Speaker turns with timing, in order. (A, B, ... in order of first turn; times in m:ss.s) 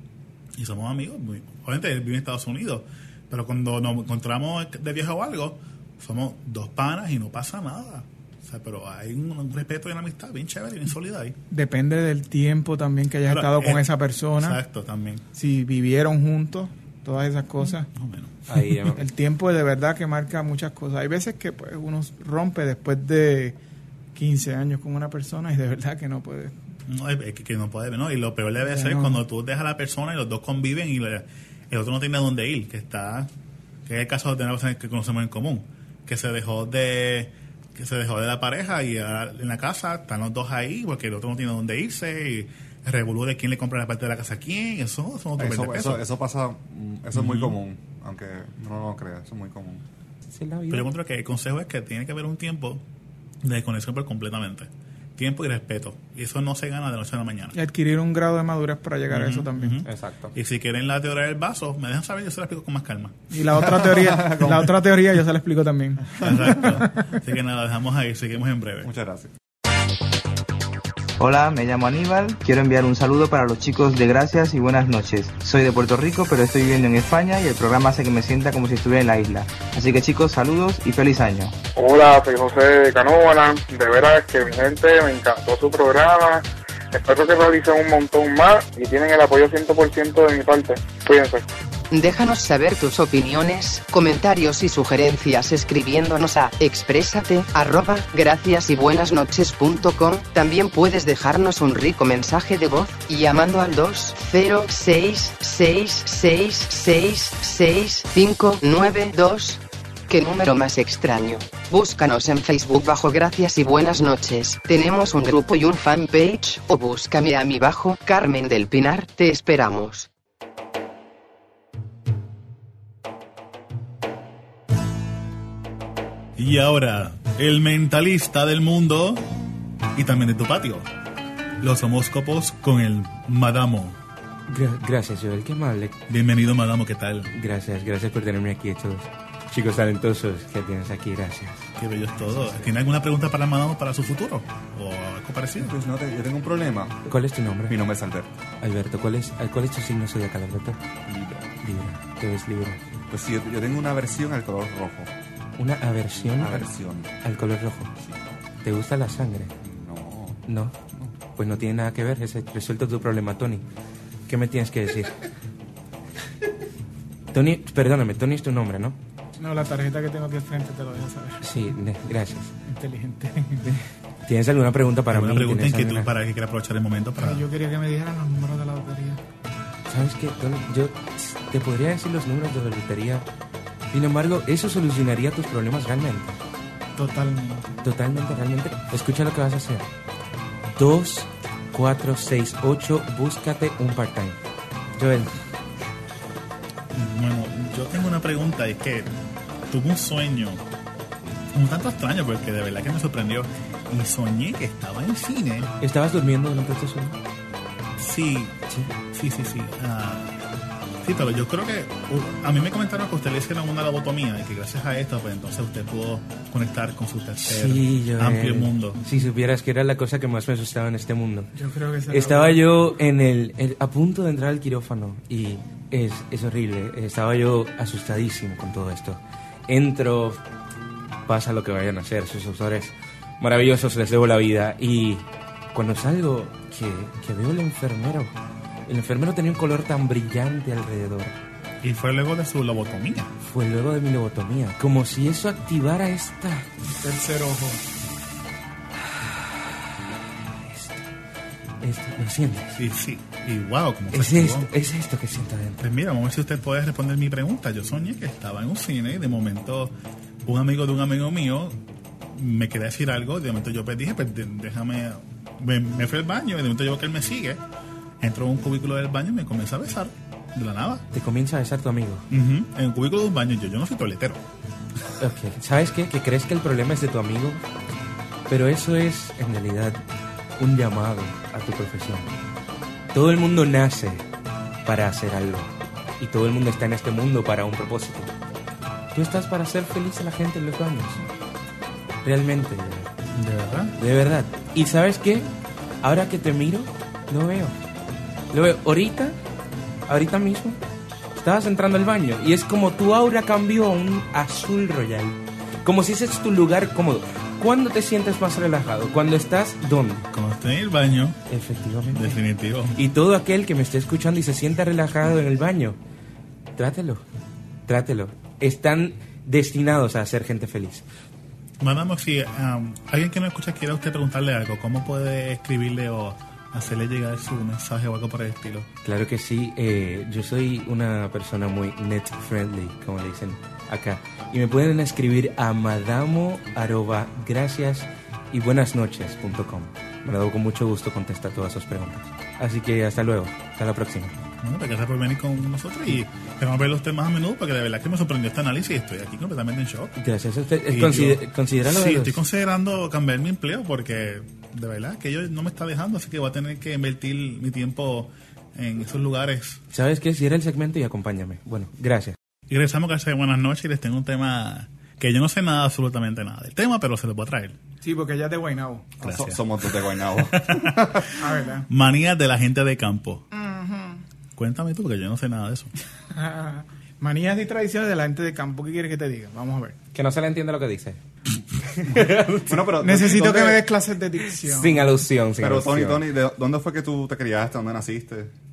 0:00.6-0:11.4 A
0:11.5-0:14.6 B
0:13.3-0:15.2 A
0:15.4-0:17.9 B
0:18.0-0:18.4 A
0:18.5-0:19.0 C
0:19.0-0:23.6 B
0:24.2-0:26.6 B
0:26.9-0:33.3 A
0:28.6-0:29.2 B
0:33.9-0:46.0 A
0:45.4-0:49.8 D
0:47.1-0:47.6 A
0:50.3-0:50.9 C
0:50.7-0:52.8 A
0:53.4-0:57.6 A
0:57.6-0:59.8 B
0:59.1-1:03.2 A
0:59.8-1:00.3 C
1:03.3-1:06.8 B
1:04.0-1:04.7 D
1:06.2-1:08.9 A
1:06.2-1:06.5 D
1:08.8-1:09.3 D
1:11.2-1:21.6 E
1:21.8-1:31.4 F
1:31.9-2:00.1 G
2:06.4-2:09.2 A
2:10.0-2:10.9 A
2:11.6-2:14.0 A
2:14.5-2:16.0 C
2:16.1-2:17.3 A
2:17.3-2:21.6 C
2:21.8-2:25.7 A
2:25.6-2:27.0 D
2:27.1-2:27.8 C
2:27.7-2:28.3 D
2:28.6-2:30.8 C
2:31.1-2:31.5 D
2:31.6-2:32.8 C
2:33.1-2:35.1 D
2:35.6-2:36.7 C
2:36.2-2:37.1 D
2:37.2-2:37.9 C
2:38.6-2:39.5 C
2:39.6-2:40.4 D
2:40.5-2:40.8 C
2:41.4-2:43.6 C
2:44.3-2:45.2 C
2:47.3-2:49.0 C
2:49.4-2:51.4 B
2:51.4-2:52.5 C
2:52.7-2:53.7 B
2:53.7-2:56.1 C
2:55.1-2:57.5 A
2:57.2-2:59.2 B
2:59.9-3:03.3 C
3:03.9-3:06.4 C
3:07.0-3:07.8 B
3:07.8-3:09.9 C
3:10.8-3:14.4 C
3:15.0-3:15.3 C
3:16.9-3:19.1 A
3:19.7-3:20.6 A
3:21.5-3:25.7 A
3:25.8-3:27.2 C
3:28.0-3:28.6 A
3:29.1-3:30.3 A
3:31.0-3:39.0 A
3:37.5-3:41.5 C
3:41.6-3:42.6 B
3:42.1-3:50.4 C
3:51.3-3:58.3 C
3:58.9-4:01.4 C
4:01.8-4:03.3 A
4:03.4-4:06.7 C
4:07.0-4:07.8 B
4:09.2-4:09.7 C
4:10.5-4:11.0 C
4:11.8-4:12.8 C
4:12.8-4:14.7 A
4:14.1-4:15.8 C
4:15.8-4:19.9 A
4:20.4-4:21.8 A
4:22.4-4:27.6 A
4:28.2-4:31.0 A
4:31.1-4:32.2 C
4:32.3-4:34.4 A
4:35.2-4:37.6 C
4:38.5-4:40.0 C
4:40.6-4:42.3 C
4:43.1-4:44.2 C
4:44.8-4:48.3 C
4:49.1-4:51.2 C
4:52.2-4:53.1 C
4:53.3-4:54.0 A
4:54.0-4:55.5 C
4:56.0-4:57.8 C
4:58.5-4:59.4 C
5:00.1-5:00.8 C
5:01.4-5:10.3 C
5:10.3-5:11.4 A
5:11.5-5:12.4 C
5:12.1-5:13.0 A
5:13.0-5:16.0 C
5:16.8-5:17.2 C
5:17.9-5:21.0 C
5:21.8-5:28.9 A
5:29.0-5:44.4 C
5:44.6-5:50.2 A
5:50.2-5:52.4 C
5:50.9-5:59.8 A
5:59.9-6:02.4 C
6:02.7-6:07.8 A
6:08.0-6:09.1 B
6:09.2-6:11.3 D
6:09.2-6:11.3 A
6:11.4-6:11.9 B
6:11.9-6:13.4 A
6:13.5-6:14.2 B
6:14.6-6:15.9 A
6:16.3-6:20.0 B
6:20.1-6:21.2 C
6:21.9-6:22.8 C
6:22.7-6:23.9 D
6:23.0-6:25.2 B
6:24.6-6:26.2 C
6:25.6-6:28.5 D